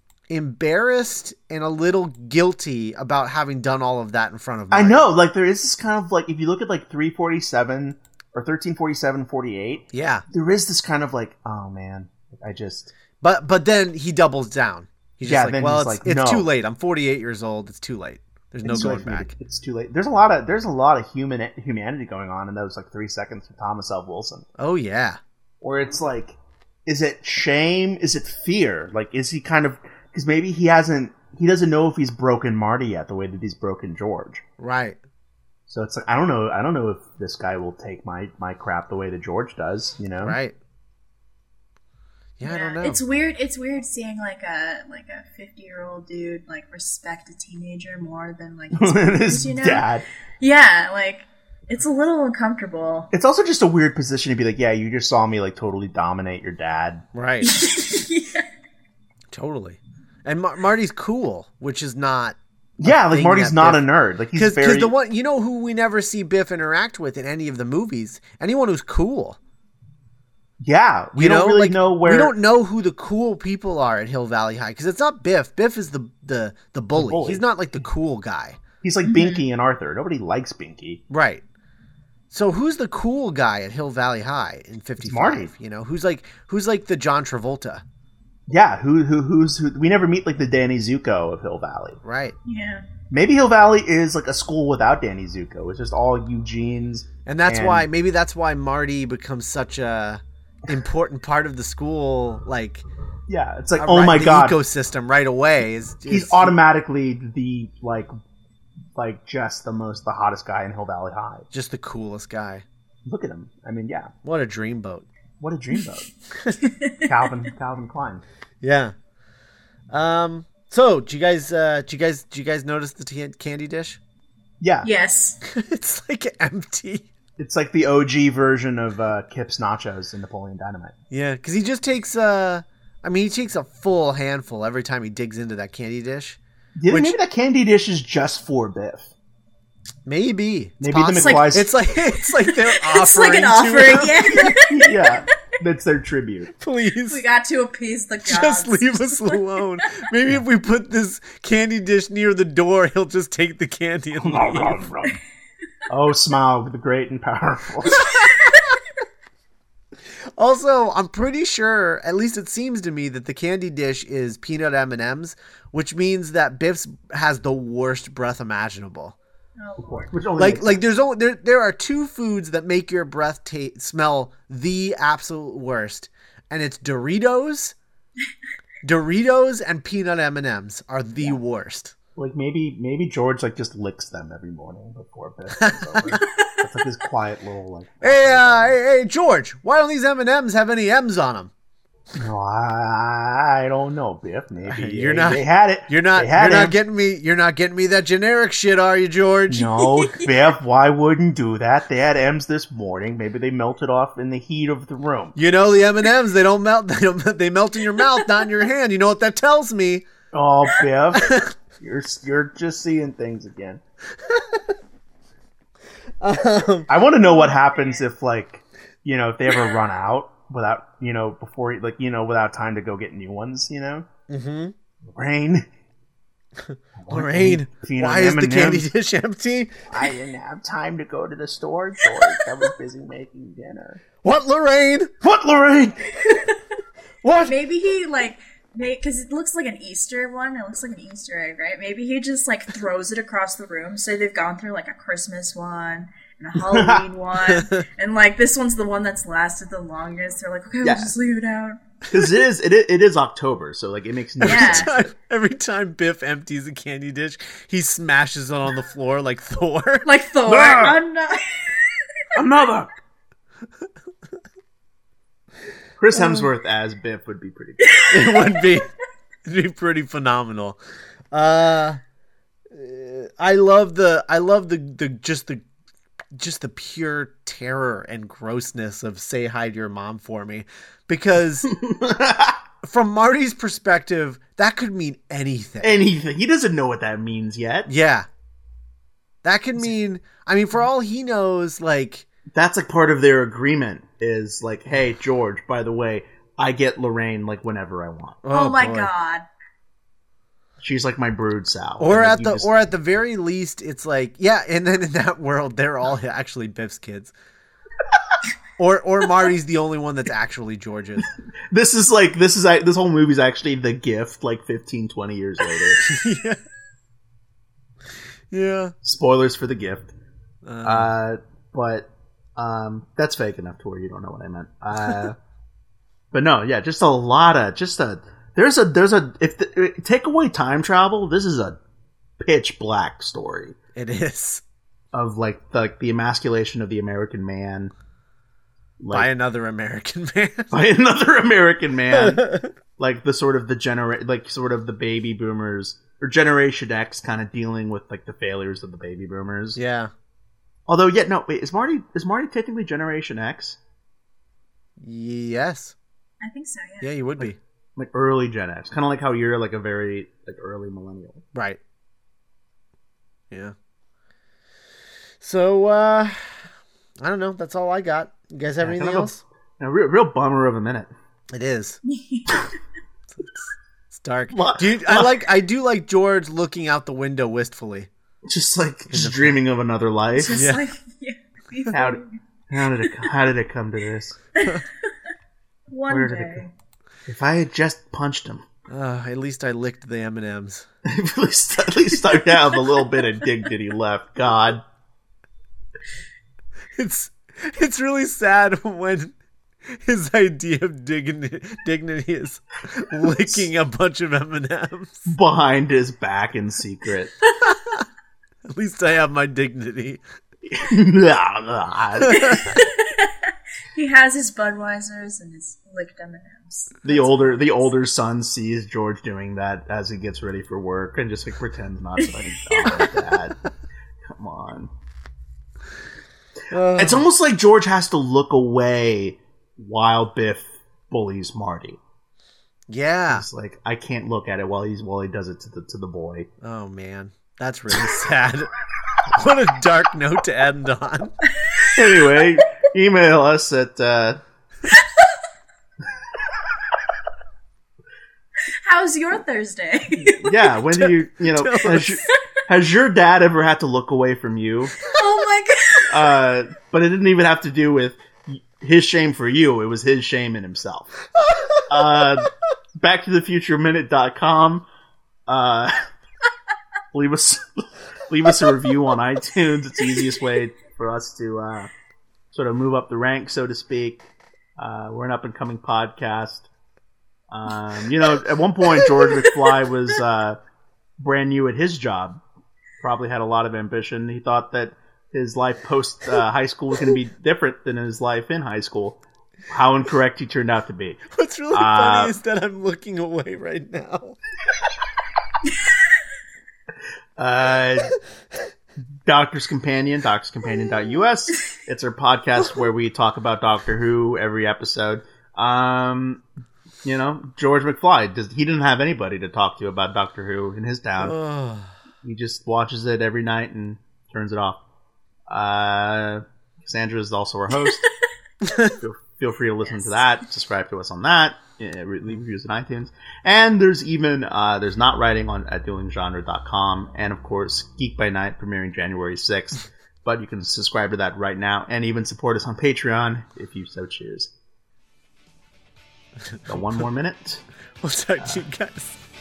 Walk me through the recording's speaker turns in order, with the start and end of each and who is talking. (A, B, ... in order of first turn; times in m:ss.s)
0:00.3-0:05.0 A
0:04.7-0:12.9 B
0:09.9-0:10.2 A
0:13.2-0:19.3 A
0:15.2-0:16.5 B
0:18.6-0:24.4 B
0:24.6-0:25.2 A
0:25.6-0:34.4 B
0:34.6-0:35.0 A
0:35.7-0:40.4 B
0:40.2-0:40.5 A
0:42.4-0:43.0 A
0:42.4-0:49.9 C
0:48.7-0:50.0 B
0:50.4-0:53.1 C
0:53.1-0:57.0 B
0:57.1-0:57.5 A
0:57.4-0:58.4 C
0:59.3-1:09.4 A
1:02.8-1:04.9 B
1:10.6-1:12.3 B
1:11.2-1:18.6 A
1:16.9-1:17.4 B
1:18.8-1:21.0 B
1:19.0-1:19.4 C
1:21.1-1:21.4 A
1:22.3-1:27.8 A
1:25.0-1:25.5 B
1:28.5-1:32.0 B
1:32.0-1:32.4 A
1:32.4-1:32.8 C
1:33.1-1:37.9 B
1:37.2-1:42.8 A
1:43.3-1:44.6 B
1:43.8-1:46.5 A
1:46.1-1:48.1 B
1:48.9-1:51.5 B
1:51.5-1:52.6 A
1:53.0-1:54.1 B
1:54.2-1:55.1 A
1:55.4-1:56.1 B
1:56.3-1:56.7 A
1:56.8-1:57.1 C
1:57.0-1:58.2 B
1:58.6-1:58.9 A
1:59.9-2:04.0 A
2:04.6-2:04.9 B
2:04.8-2:05.4 C
2:05.4-2:07.1 A
2:07.4-2:10.9 B
2:11.1-2:17.2 A
2:16.8-2:19.1 B
2:20.0-2:24.6 A
2:20.8-2:21.7 B
2:21.2-2:25.2 C
2:24.7-2:26.5 B
2:26.6-2:27.2 A
2:27.1-2:30.0 C
2:28.2-2:34.8 A
2:34.2-2:35.2 B
2:35.9-2:38.2 B
2:38.0-2:38.6 C
2:40.4-2:49.2 A
2:49.6-2:50.1 C
2:49.8-2:50.8 B
2:50.4-2:57.7 A
2:58.8-3:01.9 A
3:02.2-3:08.8 B
3:05.6-3:06.2 A
3:06.2-3:06.7 C
3:08.0-3:11.5 A
3:12.2-3:16.8 B
3:14.7-3:19.7 A
3:19.5-3:25.4 B
3:19.7-3:20.5 C
3:25.4-3:30.0 A
3:28.0-3:28.4 C
3:30.3-3:33.8 B
3:31.1-3:31.5 A
3:34.1-3:34.8 A
3:36.2-3:36.9 A
3:36.9-3:44.1 B
3:37.2-3:38.0 C
3:44.3-3:44.7 A
3:45.1-3:45.7 B
3:46.6-3:49.9 A
3:47.0-3:48.9 B
3:49.9-3:54.0 B
3:52.0-3:52.5 C
3:54.2-3:55.1 A
3:55.2-3:56.1 B
3:56.2-3:56.6 C
3:57.2-3:57.6 A
3:57.4-4:11.8 C
4:06.6-4:07.0 B
4:07.4-4:07.8 A
4:10.8-4:11.1 B
4:12.1-4:14.9 B
4:14.4-4:20.1 A
4:14.4-4:14.9 C
4:20.0-4:22.4 C
4:20.5-4:21.0 B
4:22.3-4:22.9 B
4:26.0-4:28.0 B
4:27.8-4:28.9 C
4:28.1-4:28.9 A
4:29.4-4:30.8 A
4:31.3-4:32.0 A
4:32.7-4:35.6 A
4:36.3-4:41.7 A
4:41.6-4:42.6 B
4:42.8-4:45.9 A
4:45.8-4:47.9 B
4:47.9-4:48.3 A
4:49.4-4:52.3 A
4:52.5-4:58.4 B
4:58.4-4:59.1 A
4:58.5-4:59.4 C
5:00.8-5:02.7 B
5:02.0-5:07.3 A
5:08.8-5:11.3 A
5:11.7-5:16.0 B
5:16.0-5:16.6 A
5:18.5-5:18.9 A
5:19.0-5:20.1 B
5:20.6-5:21.1 A
5:20.8-5:25.4 B
5:26.3-5:31.8 B
5:32.4-5:33.8 B
5:33.9-5:34.6 A
5:35.1-5:37.9 B
5:39.0-5:39.3 B
5:39.1-5:40.7 A
5:40.7-5:42.4 B
5:42.1-5:42.7 A
5:43.0-5:49.8 B
5:49.8-5:50.1 A
5:50.9-5:53.8 B
5:55.0-5:55.9 A
5:56.4-5:57.1 C
5:57.0-5:57.6 A
5:57.4-6:01.4 B
6:01.5-6:01.8 A
6:05.4-6:06.6 A
6:07.2-6:09.4 A
6:08.8-6:11.1 B
6:11.5-6:12.0 A
6:12.1-6:12.7 C
6:13.3-6:18.1 A
6:14.5-6:15.4 B
6:18.4-6:20.6 B
6:19.1-6:19.6 A
6:20.4-6:22.4 C
6:20.5-6:20.9 A
6:21.9-6:24.4 B
6:24.6-6:25.1 C
6:25.9-6:26.7 C
6:26.1-6:26.6 B
6:27.3-6:28.6 B
6:28.9-6:30.8 A
6:31.0-6:34.8 B
6:36.9-6:39.4 A
6:39.9-6:45.3 A
6:43.3-6:43.6 B
6:45.3-6:47.3 B
6:47.6-6:48.0 A
6:48.7-6:50.2 A
6:50.7-6:52.8 B
6:52.2-6:52.7 A
6:52.4-6:57.9 C
6:57.0-7:03.6 B
7:02.2-7:03.1 C
7:04.2-7:04.9 B
7:06.7-7:07.2 A
7:06.9-7:12.0 B
7:12.9-7:13.4 A
7:13.3-7:16.5 B
7:16.6-7:18.7 A
7:19.3-7:21.3 A
7:21.6-7:22.0 C
7:21.8-7:24.4 B
7:28.7-7:30.7 C
7:30.2-7:34.9 B
7:30.9-7:32.2 A
7:35.0-7:36.4 C
7:36.1-7:41.1 B
7:41.3-7:42.3 A
7:41.9-7:44.8 B
7:45.5-7:46.0 B
7:47.1-7:51.9 B
7:52.5-7:54.2 B
7:54.8-7:56.7 B
7:57.5-8:00.6 B
8:01.2-8:02.4 B
8:03.0-8:12.4 B
8:11.3-8:14.4 A
8:17.4-8:18.1 B
8:19.2-8:26.4 B
8:27.0-8:31.4 B
8:31.2-8:31.9 A
8:32.2-8:34.8 B
8:35.5-8:38.0 B
8:38.6-8:39.0 A
8:38.8-8:54.5 B
8:39.8-8:40.2 C
8:56.5-8:56.8 A
8:56.7-8:57.6 B
8:58.0-8:59.2 A